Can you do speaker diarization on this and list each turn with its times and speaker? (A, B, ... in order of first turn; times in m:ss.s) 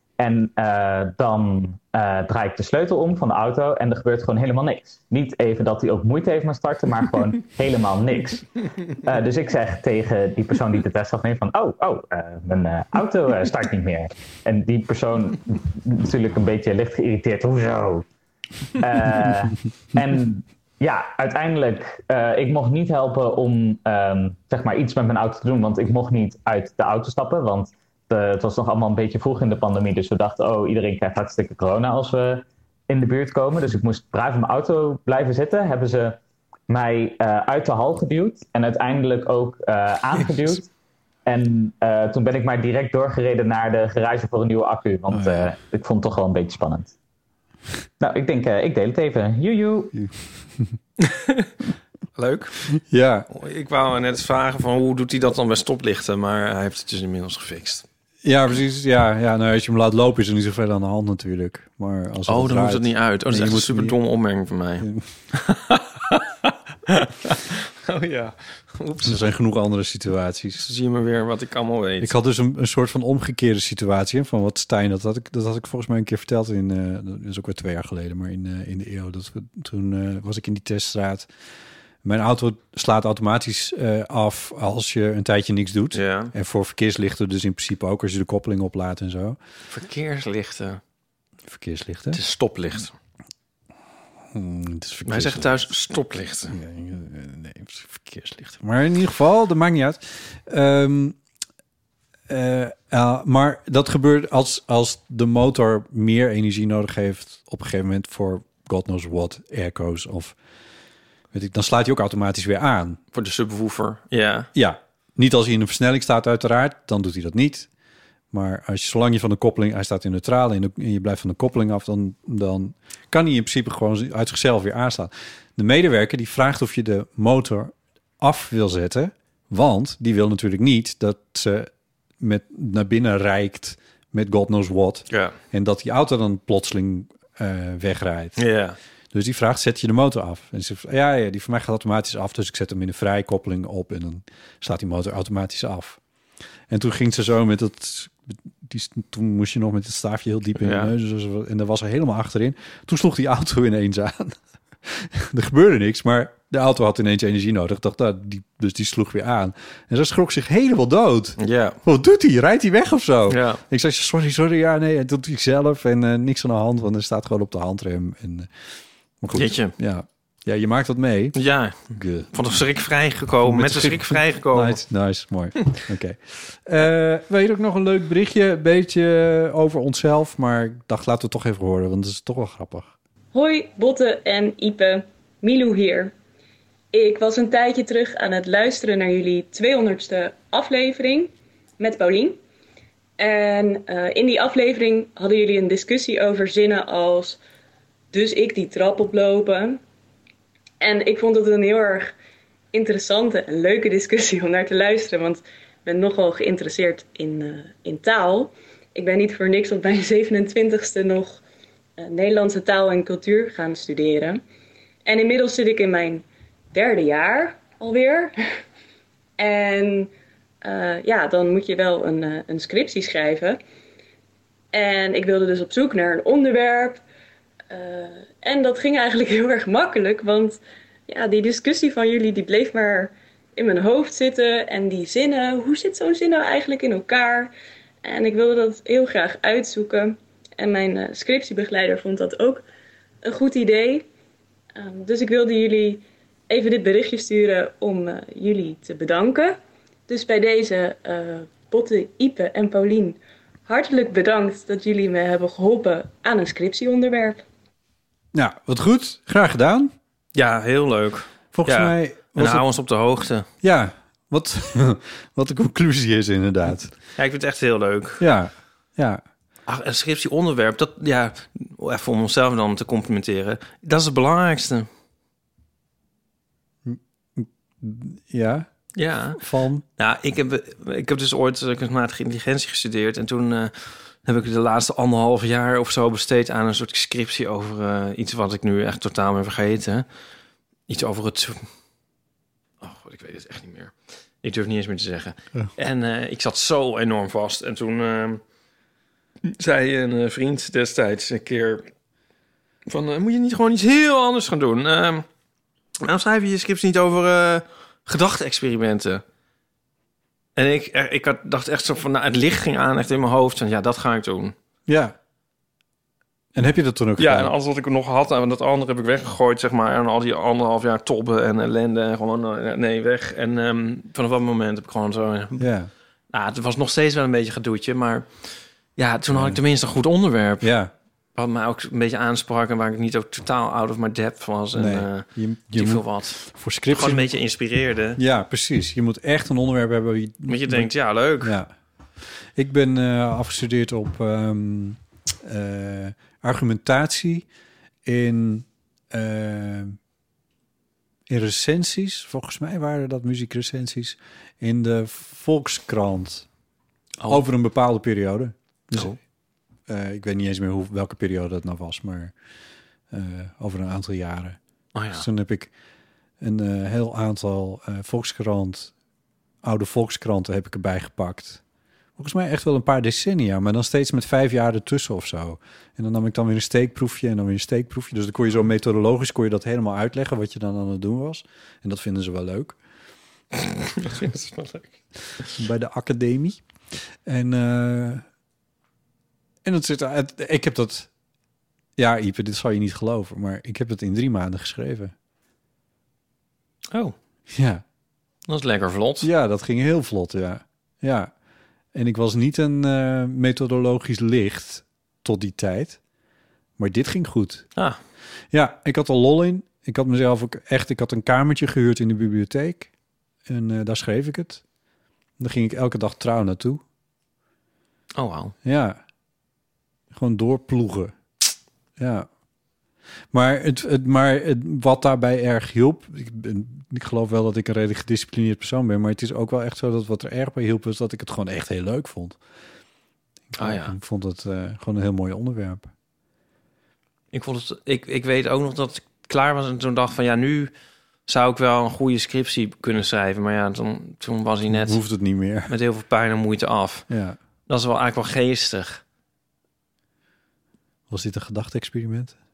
0:00.2-0:08.5 A
0:09.0-0:18.0 A
0:18.8-0:36.2 A
0:36.7-0:40.7 A
0:41.2-0:46.9 A
0:45.1-0:45.5 B
0:48.0-0:49.9 A
0:49.9-0:50.7 B
0:51.0-0:51.5 C
0:52.2-0:52.6 C
0:52.7-0:53.3 B
0:53.3-0:57.8 C
0:58.2-1:04.0 B
1:02.3-1:09.2 C
1:04.8-1:05.1 B
1:09.0-1:10.7 B
1:10.6-1:12.1 C
1:12.0-1:21.3 B
1:22.0-1:29.4 B
1:25.9-1:26.3 C
1:29.7-1:30.8 C
1:31.5-1:32.2 B
1:32.1-1:32.9 C
1:34.3-1:35.6 B
1:35.0-1:36.6 C
1:36.5-1:41.2 B
1:42.3-1:50.4 B
1:51.3-1:53.0 B
1:53.1-1:54.5 C
1:54.5-1:57.7 B
1:58.3-2:18.4 B
2:15.1-2:15.4 C
2:18.4-2:18.8 C
2:19.1-2:26.0 B
2:26.7-2:48.5 B
2:30.6-2:30.9 C
2:41.4-2:41.8 C
2:43.3-2:43.6 C
2:49.2-2:51.4 B
2:49.3-2:49.7 C
2:51.3-2:54.8 C
2:51.9-2:52.3 B
2:53.4-3:02.9 B
3:03.3-3:06.1 D
3:06.9-3:12.4 D
3:13.2-3:17.4 D
3:18.1-3:19.8 D
3:20.8-3:22.1 D
3:22.7-3:31.4 D
3:32.0-3:34.4 D
3:35.0-3:38.3 D
3:39.4-3:40.1 D
3:40.6-3:43.6 D
3:44.7-3:47.0 D
3:47.7-3:57.5 D
3:58.0-4:02.6 D
4:03.2-4:04.0 D
4:04.8-4:17.4 D
4:18.3-4:19.9 B
4:20.3-4:23.5 C
4:21.5-4:22.6 B
4:23.6-4:26.9 B
4:27.2-4:28.2 C
4:28.2-4:29.2 B
4:29.7-4:34.9 C
4:36.8-4:38.7 B
4:39.0-4:39.4 C
4:39.4-4:39.8 B
4:40.0-4:50.0 C
4:50.9-4:51.7 C
4:52.8-4:58.4 C
4:59.4-5:01.9 C
5:02.9-5:05.2 C
5:06.0-5:09.2 C
5:10.6-5:14.5 C
5:14.9-5:15.1 B
5:16.5-5:17.5 B
5:17.2-5:25.6 C
5:25.6-5:25.9 B
5:26.3-5:28.3 C
5:29.0-5:30.7 C
5:29.3-5:29.6 B
5:30.6-5:30.9 B
5:31.3-5:38.2 C
5:34.7-5:37.3 B
5:38.2-5:41.7 B
5:40.5-5:41.6 C
5:42.5-5:47.5 B
5:48.0-5:50.0 B
5:51.3-5:56.5 B
5:57.3-5:59.2 B
5:59.9-6:02.3 B
6:03.1-6:04.6 B
6:04.9-6:05.2 C
6:05.1-6:05.7 B
6:06.4-6:08.9 B
6:09.6-6:11.6 B
6:12.2-6:22.8 B
6:23.5-6:25.0 C
6:25.6-6:26.6 B
6:27.2-6:28.2 B
6:29.6-6:31.1 B
6:32.0-6:35.1 B
6:37.5-6:37.8 B
6:38.5-6:39.3 C
6:39.2-6:41.3 B
6:41.9-6:46.0 B
6:46.8-6:47.7 B
6:48.5-6:52.9 B
6:53.5-6:54.6 B
6:55.4-6:56.8 B
6:58.2-6:58.5 C
6:58.6-6:59.0 B
7:00.1-7:01.1 B
7:02.0-7:02.3 B
7:03.3-7:12.4 B
7:13.5-7:15.9 B
7:13.6-7:13.9 C
7:17.3-7:20.7 C
7:21.3-7:25.0 C
7:24.7-7:25.7 B
7:25.7-7:27.1 C
7:27.1-7:27.4 B
7:27.7-7:29.0 C
7:31.1-7:32.4 B